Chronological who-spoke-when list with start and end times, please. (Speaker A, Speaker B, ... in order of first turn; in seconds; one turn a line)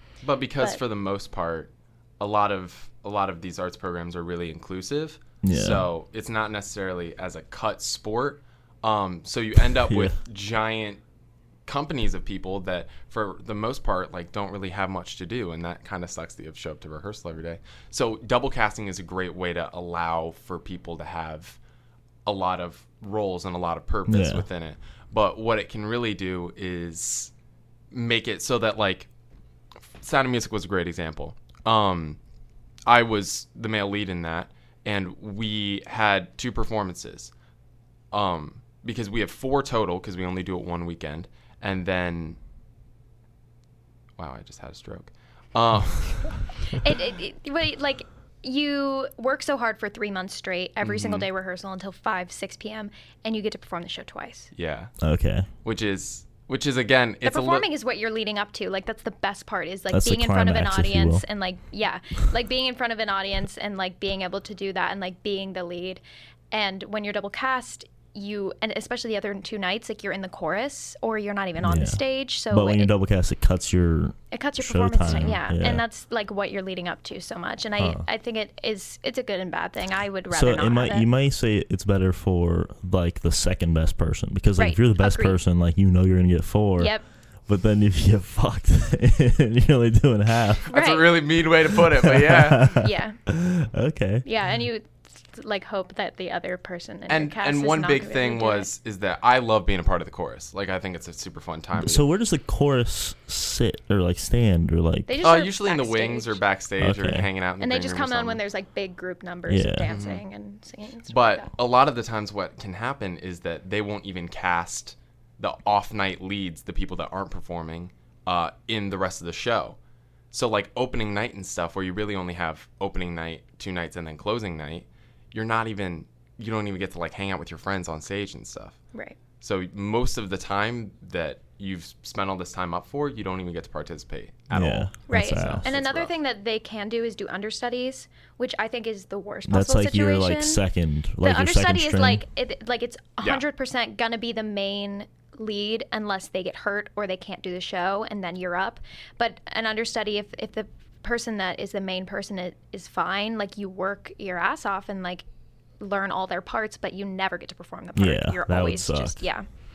Speaker A: 0.2-11.0
Speaker B: 5.4-5.9
Speaker B: 9.9-10.2
Speaker A: 11.7-21.6
Speaker A: 22.3-27.3
Speaker B: 24.1-24.4
Speaker A: 27.9-29.1
Speaker A: 29.8-32.2
Speaker A: 32.9-37.3
Speaker A: 38.1-42.4
Speaker A: 44.2-46.4
Speaker C: 46.7-54.5
Speaker A: 50.8-51.3
Speaker A: 54.5-54.9
Speaker B: 55.0-55.5
Speaker A: 55.6-57.6
Speaker C: 57.2-72.9
Speaker B: 59.9-61.2
Speaker B: 71.6-75.8
Speaker C: 74.3-81.1
Speaker B: 80.3-86.9
Speaker C: 84.6-85.4
Speaker C: 86.8-87.0
Speaker B: 87.5-90.7
Speaker C: 90.7-91.1
Speaker A: 90.7-92.8
Speaker B: 91.7-94.3
Speaker C: 92.7-93.2
Speaker C: 94.2-98.7
Speaker A: 97.1-102.0
Speaker B: 101.8-105.2
Speaker C: 105.1-106.4
Speaker A: 105.2-108.4
Speaker B: 106.8-107.3
Speaker C: 107.6-111.5
Speaker B: 109.5-109.9
Speaker A: 109.9-110.2
Speaker A: 111.1-119.8
Speaker A: 120.3-128.8
Speaker A: 129.4-136.1
Speaker B: 134.5-135.7
Speaker C: 135.1-140.6
Speaker B: 139.5-142.2
Speaker C: 141.2-155.2
Speaker C: 155.8-159.5
Speaker B: 158.0-159.2